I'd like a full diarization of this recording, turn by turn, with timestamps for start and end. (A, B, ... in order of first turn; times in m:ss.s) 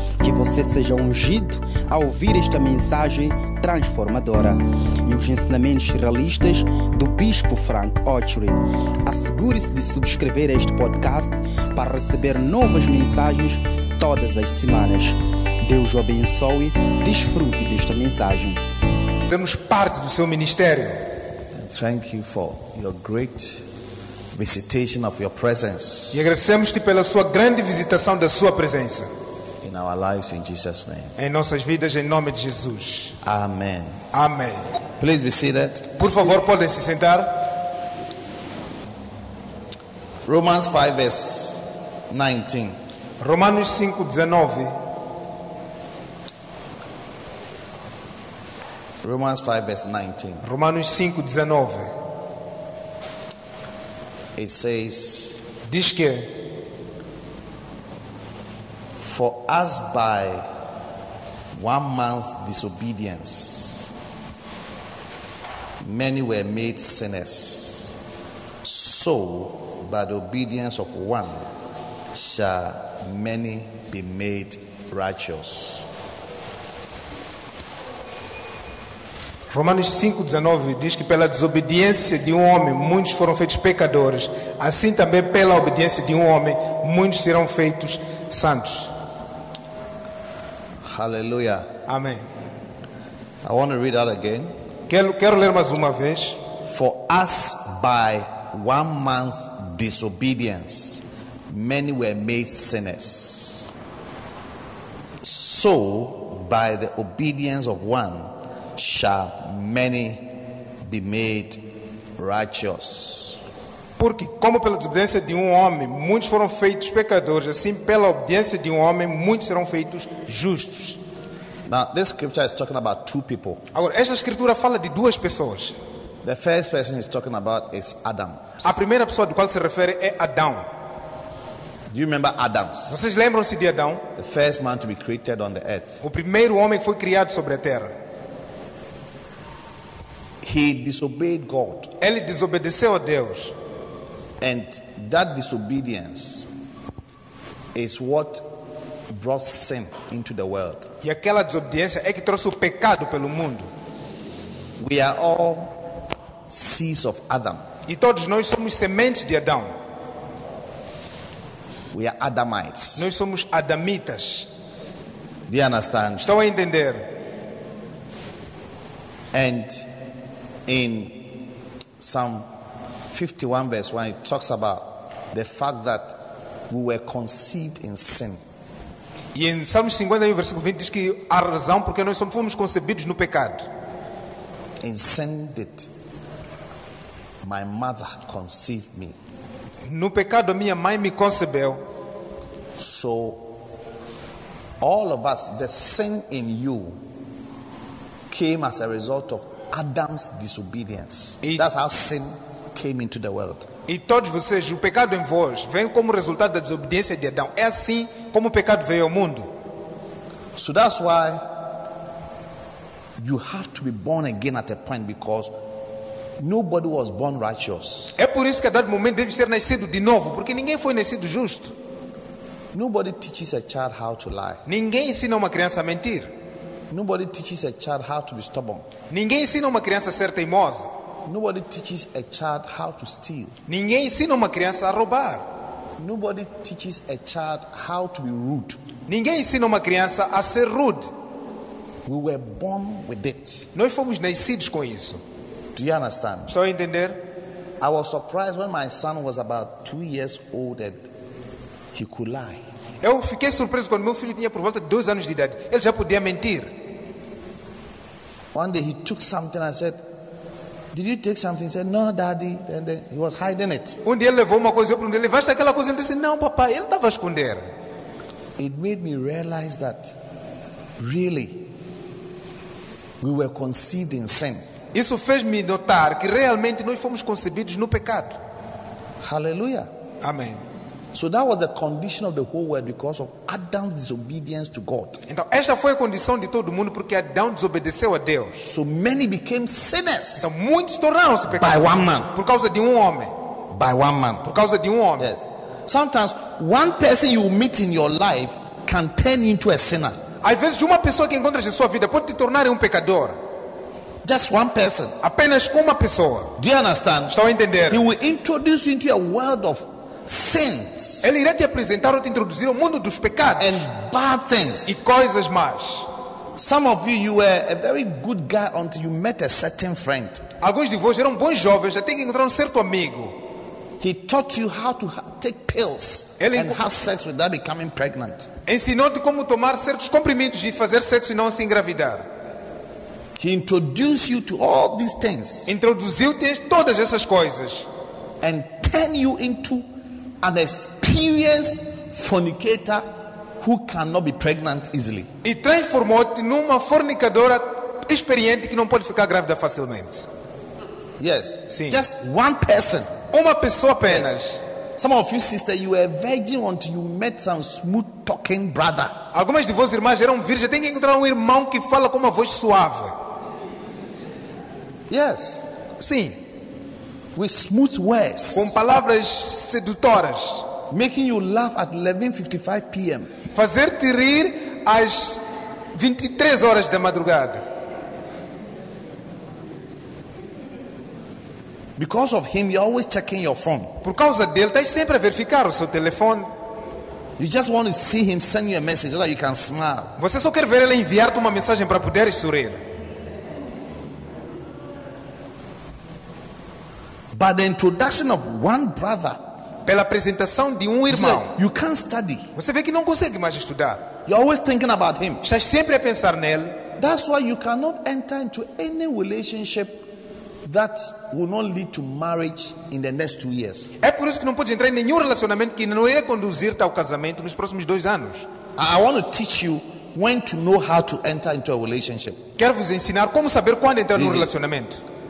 0:00.2-0:18.6 A
0:19.3-0:21.0 B
0:21.5-0:23.6 C
0:24.3-0:26.3 C
0:26.1-0:29.1 B
0:29.6-0:31.1 C
0:31.2-0:33.1 B
0:33.2-0:34.0 C
0:34.1-0:34.7 B
0:35.0-0:36.0 C
0:36.0-0:37.5 B
0:40.3-0:42.8 C
0:43.2-0:44.8 B
0:49.0-0:50.4 C
0:50.4-0:51.9 B
0:54.4-0:55.4 C
0:55.7-0:56.3 B
0:59.0-1:00.5 C
1:01.6-1:03.9 C
1:05.8-1:08.0 C
1:08.6-1:11.5 C
1:12.1-1:15.8 C
1:19.5-1:28.9 B
1:30.8-1:31.7 C
1:31.9-1:32.3 B
1:33.4-1:34.5 C
1:34.9-1:36.4 B
1:36.6-1:43.7 C
1:45.2-1:53.4 C
1:54.0-2:01.0 B
2:01.7-2:03.6 C
2:03.7-2:05.8 B
2:06.2-2:08.8 C
2:08.6-2:10.7 B
2:11.9-2:13.0 C
2:12.9-2:14.0 B
2:14.2-2:16.0 C
2:16.0-2:17.9 B
2:20.4-2:21.9 C
2:22.0-2:23.5 B
2:24.4-2:26.5 C
2:27.7-2:28.5 C
2:29.1-2:30.9 C
2:31.0-2:33.7 B
2:34.8-2:35.8 C
2:36.5-2:37.6 C
2:37.9-2:39.7 B
2:41.9-2:43.1 C
2:43.0-2:44.5 B
2:45.5-2:46.4 C
2:46.2-2:47.1 B
2:49.3-2:49.9 C
2:50.7-2:51.3 C
2:52.0-2:52.5 C
2:53.1-2:58.4 C
2:59.4-3:03.7 B
3:04.8-3:05.9 C
3:07.4-3:09.2 C
3:09.9-3:11.8 B
3:12.8-3:13.5 C
3:14.8-3:17.0 C
3:18.3-3:23.7 C
3:23.9-3:29.5 B
3:30.6-3:31.5 C
3:33.2-3:35.5 C
3:36.4-3:38.1 C
3:38.2-3:41.7 B
3:42.7-3:44.6 C
3:44.7-3:46.3 B
3:46.9-3:48.9 C
3:49.1-3:50.9 B
3:51.3-3:53.5 C
3:53.7-3:55.4 B
3:56.0-3:58.8 C
3:59.1-4:01.1 B
4:02.1-4:03.7 C
4:03.7-4:05.2 B
4:05.8-4:06.5 C
4:06.5-4:07.2 B
4:07.8-4:11.1 C
4:11.9-4:12.6 C
4:13.0-4:16.7 B
4:18.5-4:20.0 C
4:20.9-4:24.0 C
4:24.0-4:27.7 B
4:28.6-4:30.2 C
4:31.0-4:31.6 C
4:33.2-4:34.6 C
4:34.9-4:38.4 B
4:39.2-4:39.9 C
4:40.2-4:40.6 B
4:41.1-4:45.2 C
4:45.3-4:48.7 B
4:48.7-4:50.5 C
4:50.4-4:53.3 B
4:51.5-4:52.3 C
4:53.7-4:54.6 C
4:54.5-4:55.3 B
4:55.2-5:00.2 C
5:00.4-5:03.4 B
5:04.2-5:05.2 C
5:05.2-5:06.6 B
5:06.6-5:07.4 C
5:07.3-5:08.0 B
5:07.9-5:11.3 C
5:11.2-5:13.8 B
5:13.6-5:15.0 C
5:14.9-5:16.1 B
5:16.6-5:20.4 C
5:20.6-5:23.4 B
5:24.0-5:28.5 C
5:26.4-5:26.8 B
5:28.7-5:32.3 B
5:33.4-5:35.7 C
5:35.7-5:37.9 B
5:38.4-5:39.8 C
5:40.4-5:45.3 C
5:45.4-5:50.3 B
5:51.2-5:53.1 C
5:51.7-5:52.0 B
5:53.3-5:54.6 B
5:54.1-5:54.3 C
5:55.0-5:59.2 C
5:59.3-6:03.2 B
6:05.1-6:05.6 C
6:06.0-6:06.4 B
6:07.4-6:08.8 C
6:08.6-6:10.7 B
6:10.9-6:13.3 C
6:13.5-6:15.4 B
6:15.9-6:17.6 B
6:22.0-6:24.0 C
6:24.0-6:26.5 B
6:27.4-6:30.2 C
6:30.2-6:32.8 B
6:37.3-6:39.4 C
6:39.9-6:41.5 B
6:41.1-6:42.5 C
6:42.6-6:44.1 B
6:44.3-6:45.4 C
6:45.4-6:46.8 B
6:47.0-6:50.1 C
6:50.6-6:53.9 C
6:54.0-6:58.5 B
6:58.8-7:02.4 C
7:02.6-7:05.0 B
7:04.2-7:04.5 C